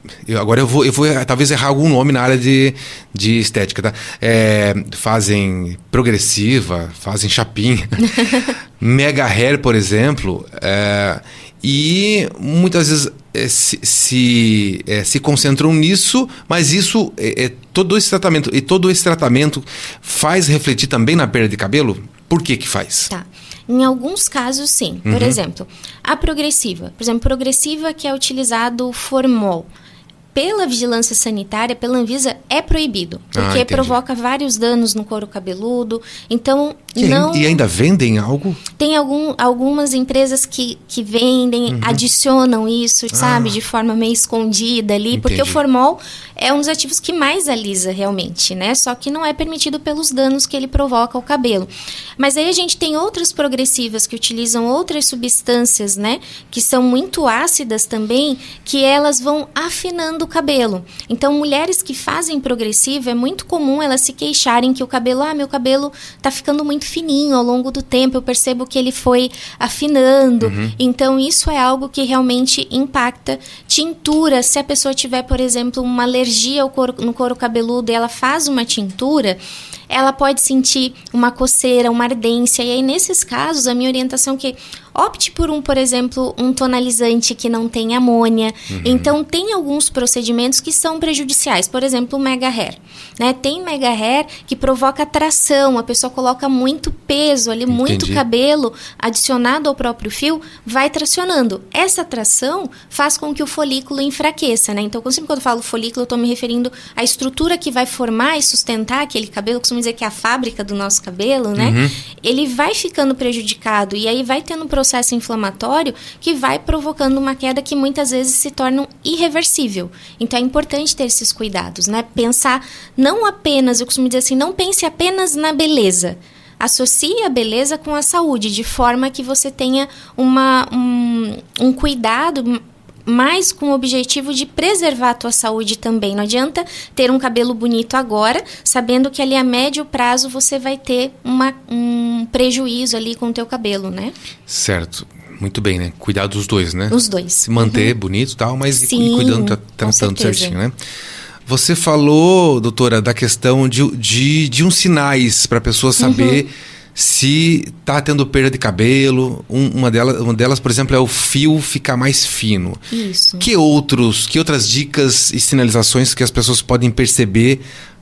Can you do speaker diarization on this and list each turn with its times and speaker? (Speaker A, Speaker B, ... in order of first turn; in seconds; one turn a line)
Speaker A: 0.3-23.1
Speaker B: 23.1-29.7
Speaker A: 25.1-25.4
Speaker B: 30.3-37.6
Speaker A: 33.3-34.0
Speaker A: 37.0-38.6
Speaker B: 38.8-144.2
Speaker A: 41.7-42.0
Speaker A: 43.1-43.5
Speaker A: 45.1-45.6
Speaker A: 70.4-70.8
Speaker A: 88.7-89.1
Speaker A: 97.7-98.2
Speaker A: 111.6-111.9
Speaker A: 144.5-150.7
Speaker B: 146.9-147.9
Speaker B: 148.7-150.6
Speaker A: 151.5-162.8
Speaker B: 156.0-156.4
Speaker B: 162.9-163.5
Speaker A: 163.4-167.6